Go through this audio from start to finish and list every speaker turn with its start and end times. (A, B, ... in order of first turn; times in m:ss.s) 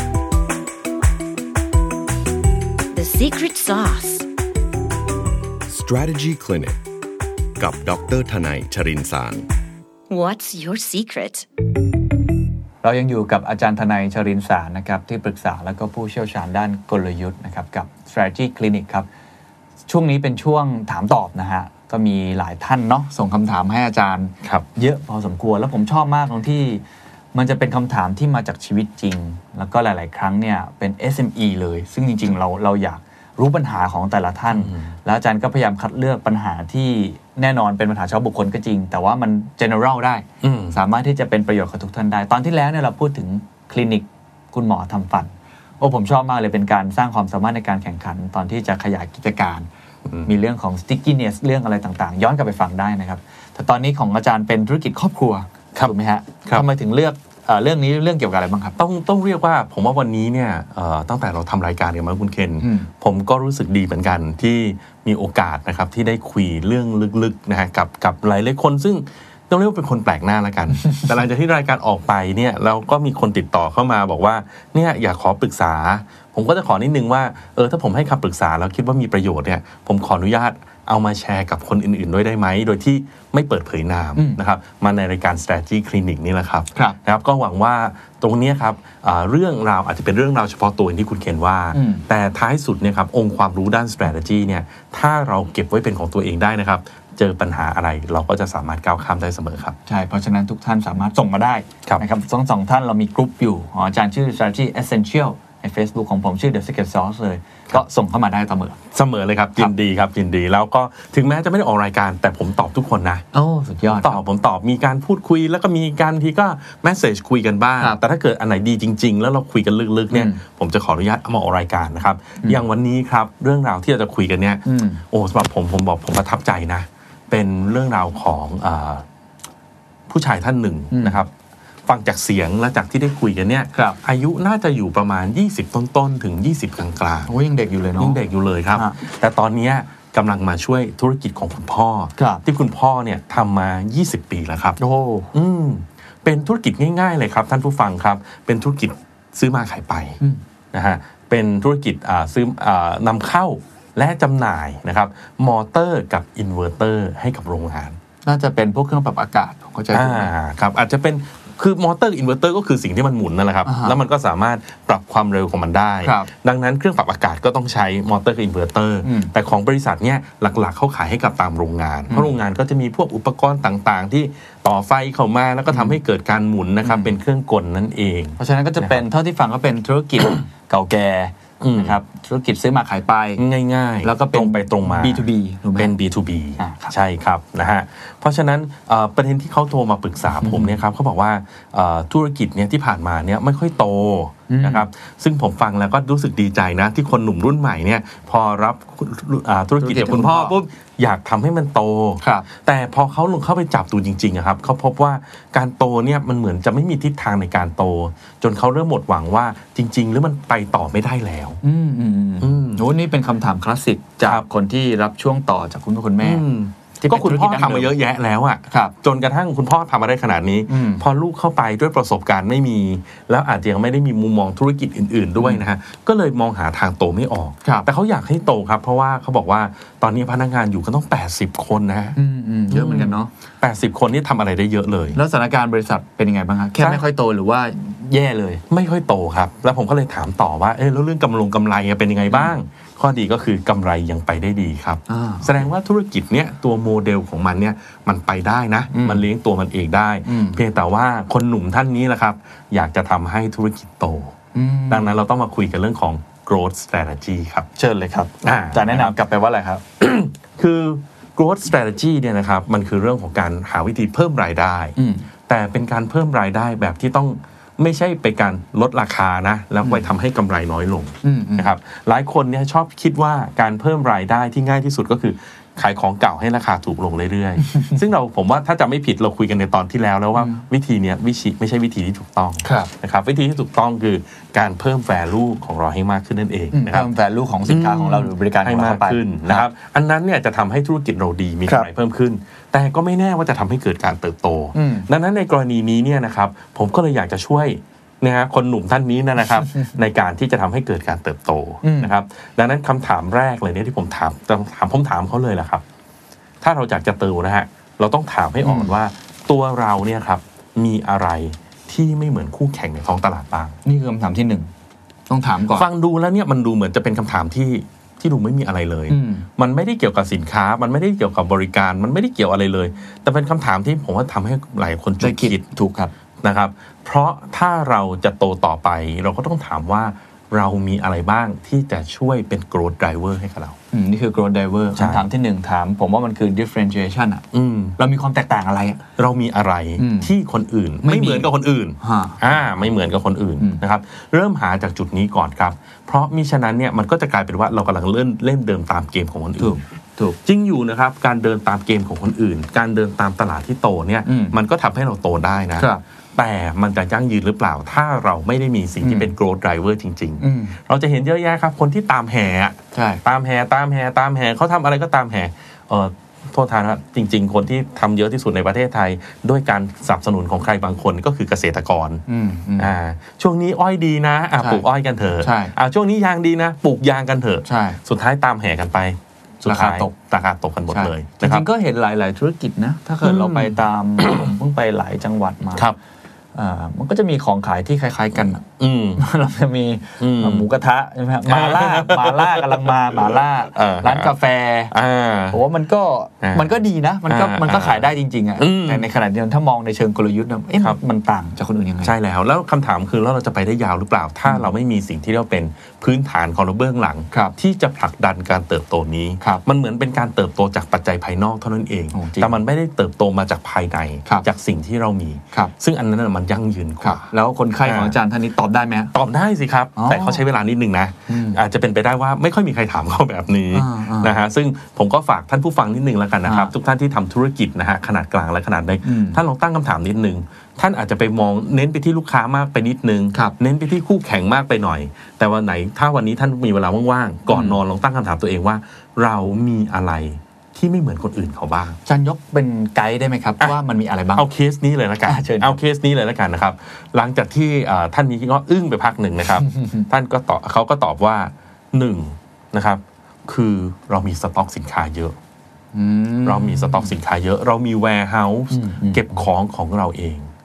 0:02.9-0:04.2 A
0:05.7-0:06.8 B
0:07.6-0:09.5 B
0:10.1-0:11.4 A
0:12.8-0:19.1 C
0:19.9-0:26.8 C
0:27.3-0:49.7 C
0:34.5-0:34.9 D
0:40.4-0:40.8 D
0:50.1-0:50.3 D
0:50.2-0:58.8 C
0:58.8-1:39.8 D
1:02.6-1:02.9 C
1:24.2-1:24.4 C
1:31.7-1:32.0 C
1:39.9-1:48.8 C
1:48.9-1:53.2 D
1:53.3-1:54.2 C
1:53.8-2:09.0 D
2:00.1-2:00.4 C
2:04.6-2:05.0 C
2:10.1-2:11.3 D
2:10.9-2:11.2 C
2:11.9-2:17.3 D
2:13.7-2:14.0 C
2:17.3-2:18.2 C
2:18.0-2:24.8 D
2:18.7-2:19.0 C
2:22.2-2:22.4 C
2:24.8-2:25.3 C
2:25.3-2:30.2 D
2:30.7-2:38.0 D
2:38.2-2:40.3 C
2:39.9-2:59.0 D
2:43.6-2:44.0 C
2:46.0-2:46.3 C
2:49.0-2:49.3 C
2:55.7-2:56.0 C
2:56.8-2:57.1 C
2:58.4-3:03.4 C
3:01.6-3:02.0 D
3:03.4-3:31.6 D
3:04.0-3:05.9 C
3:06.6-3:06.9 C
3:10.3-3:10.8 C
3:14.5-3:14.9 C
3:19.8-3:20.6 C
3:22.2-3:22.4 C
3:31.6-3:36.4 C
3:32.4-3:32.8 D
3:36.2-3:52.2 D
3:37.0-3:37.9 C
3:40.7-3:41.0 C
3:45.4-3:45.6 C
3:52.2-3:53.3 C
3:52.7-3:55.2 D
3:55.1-3:58.6 C
3:56.8-3:57.0 D
3:58.7-4:14.3 D
4:05.1-4:05.5 C
4:08.9-4:09.3 C
4:10.2-4:10.6 C
4:14.5-4:15.1 C
4:14.9-4:17.7 D
4:17.8-4:19.8 C
4:18.4-4:19.2 D
4:20.0-4:24.9 D
4:25.0-4:25.3 C
4:25.5-4:47.1 D
4:29.8-4:30.1 C
4:31.2-4:31.7 C
4:37.6-4:38.0 C
4:40.4-4:40.6 C
4:42.6-4:42.9 C
4:46.7-4:49.6 C
4:47.6-5:05.8 D
4:54.7-4:55.1 C
4:59.6-4:59.9 C
5:01.8-5:02.1 C
5:06.6-5:13.8 D
5:08.6-5:08.9 C
5:13.8-5:14.7 C
5:15.3-5:15.9 C
5:15.7-5:25.6 D
5:19.1-5:19.5 C
5:25.2-5:26.1 C
5:26.4-5:33.8 D
5:33.9-5:37.4 C
5:34.9-5:35.2 D
5:37.5-5:38.0 D
5:38.0-5:39.0 C
5:39.2-5:49.8 D
5:40.0-5:40.3 C
5:41.0-5:42.4 C
5:49.6-5:50.4 C
5:50.4-6:12.2 D
5:54.2-5:54.6 C
5:55.8-5:56.0 C
5:59.0-5:59.3 C
6:00.4-6:00.8 C
6:02.9-6:03.2 C
6:12.3-6:12.9 C
6:12.8-6:21.7 D
6:14.6-6:14.8 C
6:15.4-6:15.7 C
6:17.6-6:18.0 C
6:19.6-6:20.1 C
6:20.9-6:25.9 C
6:23.2-6:24.5 D
6:26.5-6:28.6 C
6:28.6-6:29.2 D
6:29.2-6:34.9 C
6:30.2-6:30.7 D
6:31.4-6:34.3 D
6:34.9-6:35.6 D
6:35.5-6:42.1 C
6:36.4-6:36.7 D
6:37.3-6:39.1 D
6:42.0-6:57.3 D
6:52.1-6:52.6 C
6:57.0-6:59.1 C
6:57.8-6:58.2 D
6:59.1-7:22.0 D
7:00.0-7:00.4 C
7:01.3-7:01.6 C
7:03.7-7:04.4 C
7:06.4-7:06.7 C
7:09.0-7:09.4 C
7:17.5-7:17.8 C
7:22.0-7:24.4 C
7:24.3-7:35.4 D
7:25.2-7:25.8 C
7:29.6-7:30.0 C
7:35.9-7:37.1 C
7:36.4-7:40.5 D
7:38.7-7:39.4 C